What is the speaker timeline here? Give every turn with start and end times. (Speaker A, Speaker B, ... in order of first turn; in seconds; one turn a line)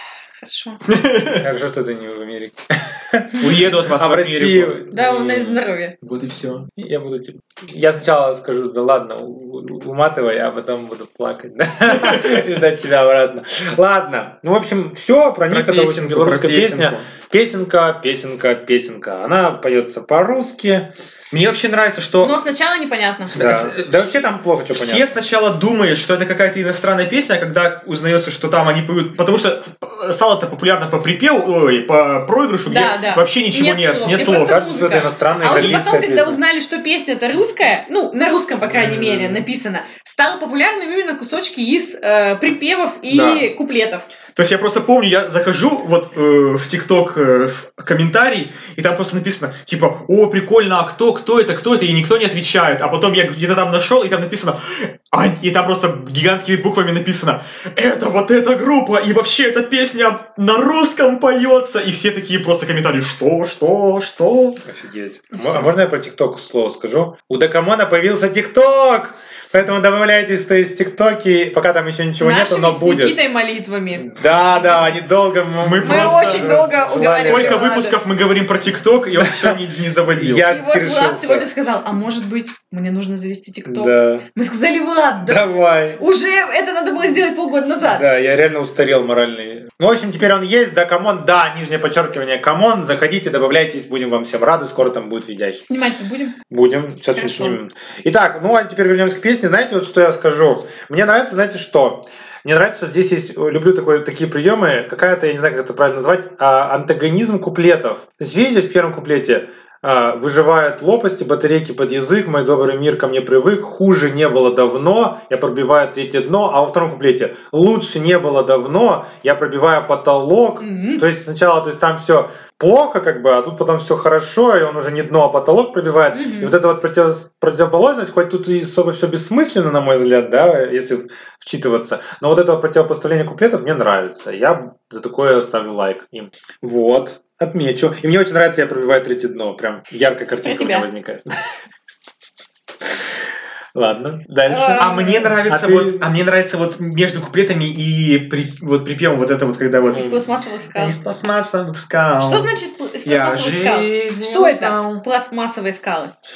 Speaker A: 0.4-0.8
Speaker B: 0.8-1.4
Speaker C: 1.4-5.5
Speaker B: 3.4-6.7
Speaker A: 4.9-5.9
Speaker C: 6.8-20.9
Speaker B: 15.5-17.1
Speaker B: 21.3-22.4
Speaker A: 22.2-23.6
Speaker B: 23.3-34.6
Speaker C: 23.3-25.1
Speaker A: 32.7-44.1
Speaker C: 34.2-36.4
Speaker B: 35.5-35.8
Speaker C: 38.7-39.4
Speaker B: 43.1-43.5
Speaker B: 44.3-64.6
Speaker C: 64.6-73.2
Speaker A: 72.2-74.1
Speaker C: 74.0-77.7
Speaker B: 75.6-80.5
Speaker A: 75.8-78.0
Speaker C: 79.2-81.5
Speaker A: 80.5-88.0
Speaker C: 83.7-84.2
Speaker C: 85.2-86.0
Speaker C: 87.8-95.6
Speaker A: 95.6-96.4
Speaker C: 96.5-141.2
Speaker A: 97.1-97.6
Speaker A: 120.6-121.0
Speaker A: 126.1-126.5
Speaker A: 140.4-140.9
Speaker C: 143.7-146.1
Speaker A: 144.5-145.3
Speaker B: 144.8-150.2
Speaker A: 149.9-151.0
Speaker C: 149.9-150.2
Speaker B: 150.7-152.5
Speaker A: 152.2-156.1
Speaker B: 153.0-155.0